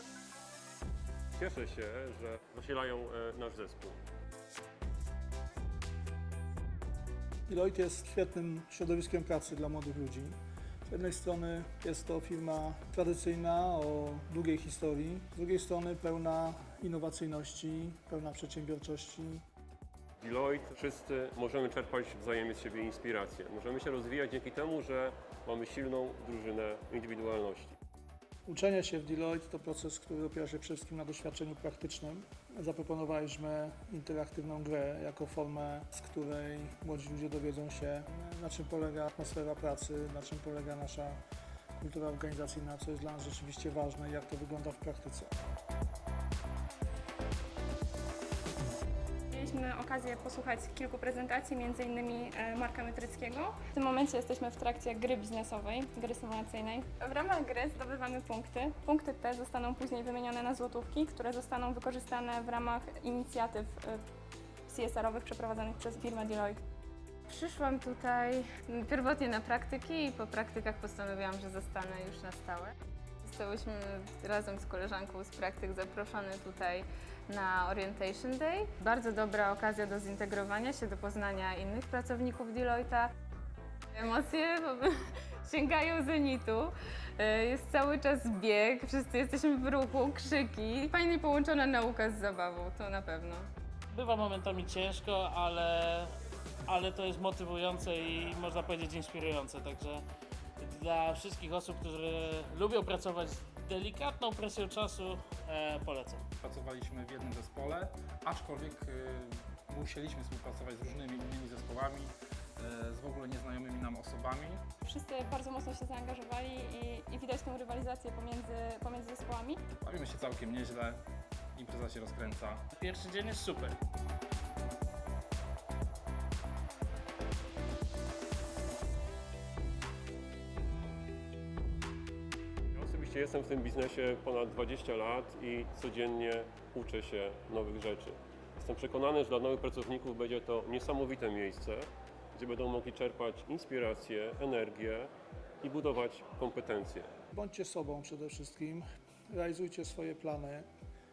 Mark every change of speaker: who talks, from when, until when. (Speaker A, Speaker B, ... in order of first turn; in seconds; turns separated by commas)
Speaker A: 1.3-4.0, Speaker B: 7.5-10.3, Speaker B: 10.9-19.4, Speaker A: 20.2-27.8, Speaker B: 28.4-41.2, Speaker B: 41.7-45.3, Speaker C: 49.3-64.0, Speaker C: 64.7-66.6, Speaker D: 67.3-83.1, Speaker D: 83.9-93.5, Speaker E: 93.9-96.1, Speaker E: 96.7-100.0, Speaker E: 100.6-106.2, Speaker F: 106.4-114.6, Speaker C: 114.8-119.6, Speaker F: 119.8-121.0, Speaker F: 121.5-122.6, Speaker E: 122.8-123.8, Speaker A: 132.7-145.1, Speaker A: 145.6-147.1, Speaker B: 147.3-150.7